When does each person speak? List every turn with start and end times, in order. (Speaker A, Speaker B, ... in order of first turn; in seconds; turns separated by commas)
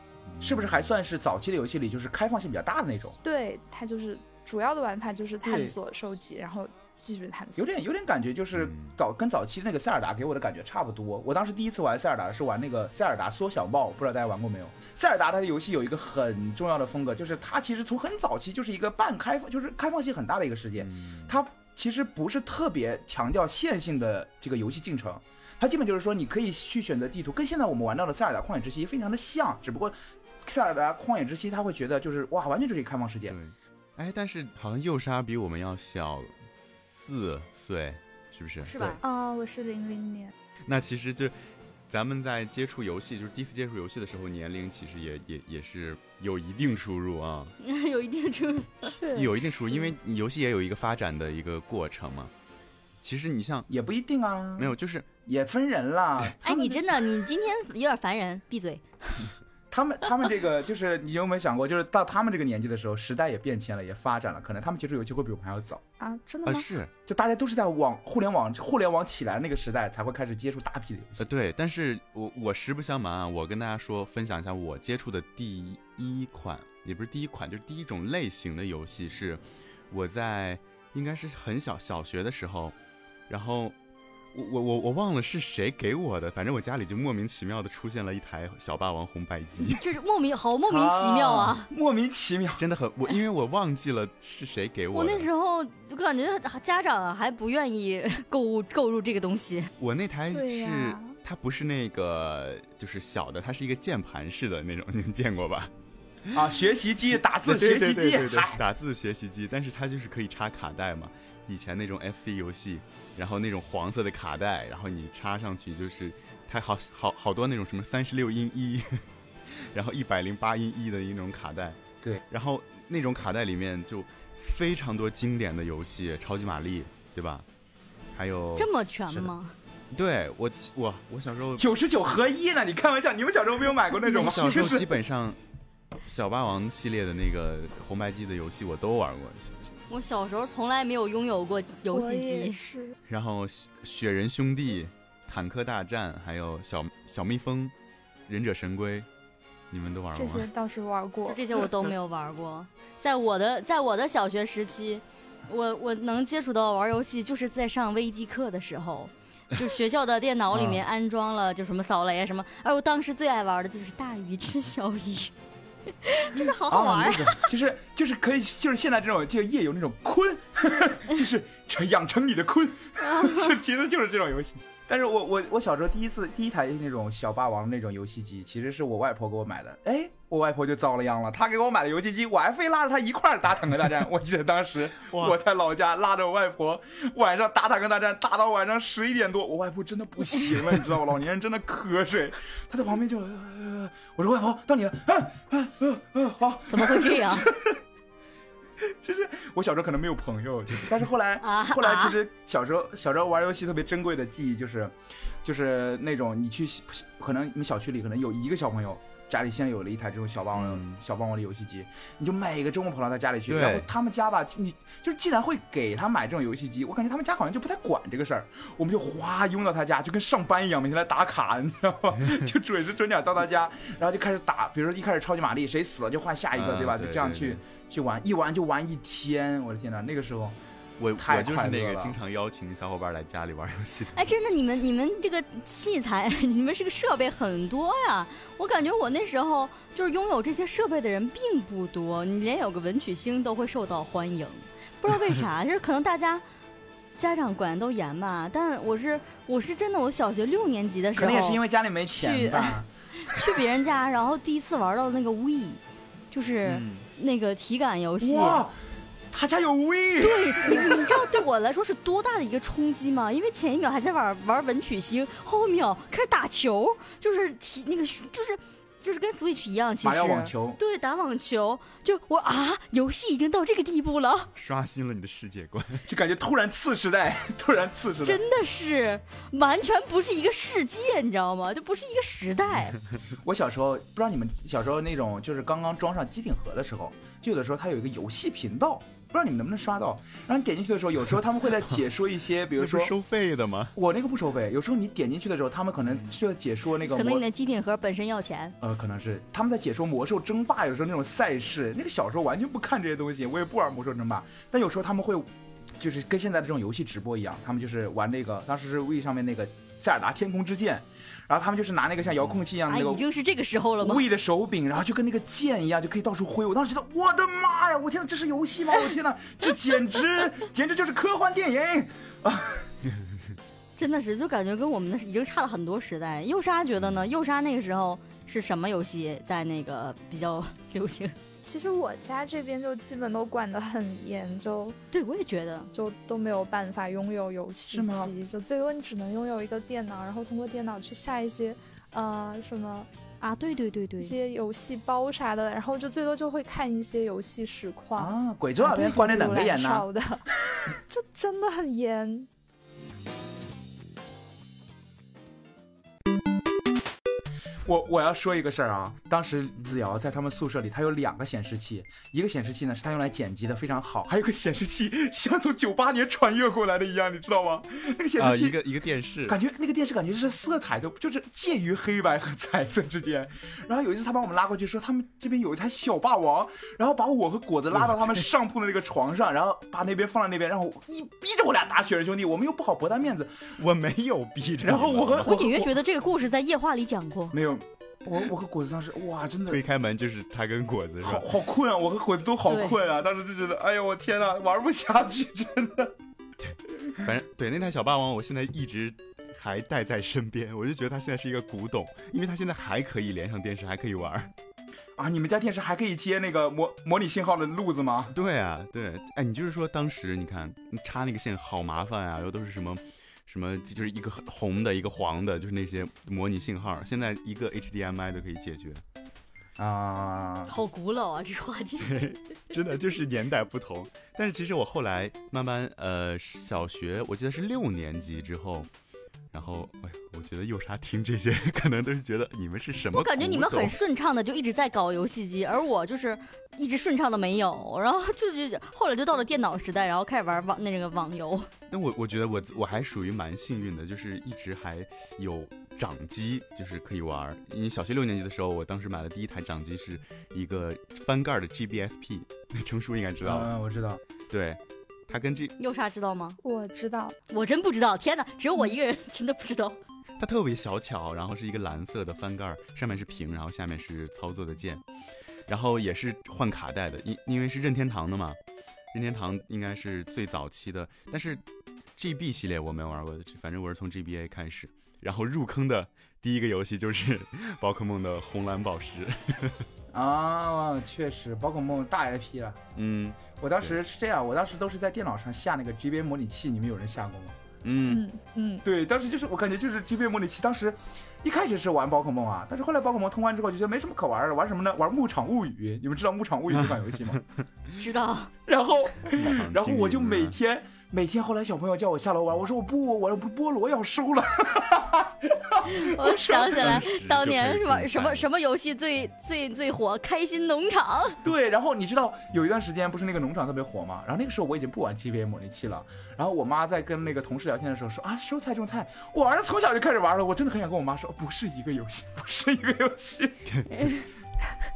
Speaker A: 0.3-0.9, Speaker B: 0.4-3.2, Speaker C: 3.2-7.7, Speaker B: 5.4-5.8, Speaker B: 7.6-33.4, Speaker A: 8.6-8.9, Speaker A: 20.8-21.4, Speaker A: 33.3-39.0, Speaker D: 38.6-39.0, Speaker C: 39.0-40.3, Speaker A: 40.7-41.3, Speaker A: 41.9-47.5, Speaker D: 47.6-48.9, Speaker C: 48.9-50.0, Speaker A: 49.1-52.3, Speaker A: 53.0-53.7, Speaker B: 53.7-56.9, Speaker A: 54.6-55.1, Speaker D: 56.4-59.3, Speaker B: 59.7-65.8, Speaker C: 66.0-66.7, Speaker A: 66.5-66.9, Speaker B: 67.1-71.3, Speaker A: 71.2-82.8, Speaker A: 83.3-83.8, Speaker A: 84.3-89.8, Speaker D: 89.6-91.7, Speaker B: 90.7-92.6, Speaker A: 92.6-95.3, Speaker D: 94.9-99.7, Speaker A: 99.8-105.7, Speaker C: 100.3-101.1, Speaker A: 106.2-106.5, Speaker B: 106.3-108.6, Speaker A: 107.0-121.8, Speaker A: 122.3-127.5, Speaker A: 128.1-128.7, Speaker D: 128.6-129.5, Speaker A: 129.9-131.7, Speaker B: 131.6-135.0, Speaker A: 134.1-135.4, Speaker A: 136.1-139.7, Speaker D: 139.9-142.6, Speaker C: 141.9-143.0, Speaker A: 143.1-147.7, Speaker A: 148.3-149.1, Speaker A: 149.7-150.5, Speaker C: 150.2-151.4, Speaker D: 151.3-165.3, Speaker D: 166.0-167.5, Speaker B: 166.4-197.8, Speaker D: 173.0-173.5, Speaker A: 185.1-185.4, Speaker D: 196.7-197.5, Speaker B: 198.8-230.6, Speaker D: 201.4-202.2, Speaker A: 210.6-211.0, Speaker A: 213.5-213.9, Speaker A: 226.6-227.6, Speaker A: 231.0-234.3, Speaker B: 231.2-232.2, Speaker D: 234.1-246.4, Speaker D: 247.2-255.8, Speaker B: 251.2-253.4, Speaker D: 256.3-258.6, Speaker A: 256.7-257.0, Speaker B: 258.2-258.8, Speaker B: 259.3-261.4, Speaker D: 260.2-274.5, Speaker B: 270.0-270.8, Speaker A: 274.6-276.1, Speaker B: 276.1-278.4, Speaker D: 278.2-283.0, Speaker B: 283.4-293.1, Speaker A: 292.8-293.9, Speaker B: 293.9-297.4, Speaker D: 297.1-298.8, Speaker B: 298.8-313.3, Speaker D: 312.9-314.2, Speaker B: 314.0-322.9, Speaker D: 324.0-331.4, Speaker C: 331.6-335.0, Speaker D: 335.1-335.9, Speaker C: 335.9-343.1, Speaker B: 337.9-338.3, Speaker D: 343.4-344.3, Speaker C: 344.2-350.5, Speaker B: 348.2-350.1, Speaker C: 351.1-352.5, Speaker B: 357.9-368.8, Speaker A: 368.4-369.6, Speaker B: 369.5-383.7, Speaker A: 383.8-385.5, Speaker B: 384.8-385.9, Speaker D: 385.4-387.6, Speaker B: 387.5-389.8, Speaker A: 389.7-391.5, Speaker B: 391.2-396.1, Speaker D: 392.7-393.0, Speaker A: 396.6-404.5, Speaker B: 405.2-408.4, Speaker A: 408.3-419.0, Speaker B: 419.8-420.7, Speaker D: 420.7-422.3, Speaker A: 422.0-428.9, Speaker A: 429.5-434.0, Speaker D: 433.1-441.7, Speaker A: 441.9-453.7, Speaker B: 453.4-454.2, Speaker A: 454.5-455.8, Speaker D: 455.8-456.6, Speaker C: 456.6-457.4, Speaker D: 457.5-460.0, Speaker A: 460.4-465.0, Speaker A: 465.7-468.6, Speaker A: 469.1-471.6, Speaker A: 472.2-479.9, Speaker B: 480.1-482.8, Speaker A: 483.0-484.0, Speaker B: 483.6-487.6, Speaker A: 487.8-488.2, Speaker C: 488.1-488.8, Speaker B: 488.8-497.4, Speaker D: 498.0-498.5, Speaker B: 498.7-507.0, Speaker A: 499.3-500.6, Speaker D: 505.9-511.4, Speaker A: 506.5-508.4, Speaker B: 511.4-523.7, Speaker A: 523.7-524.1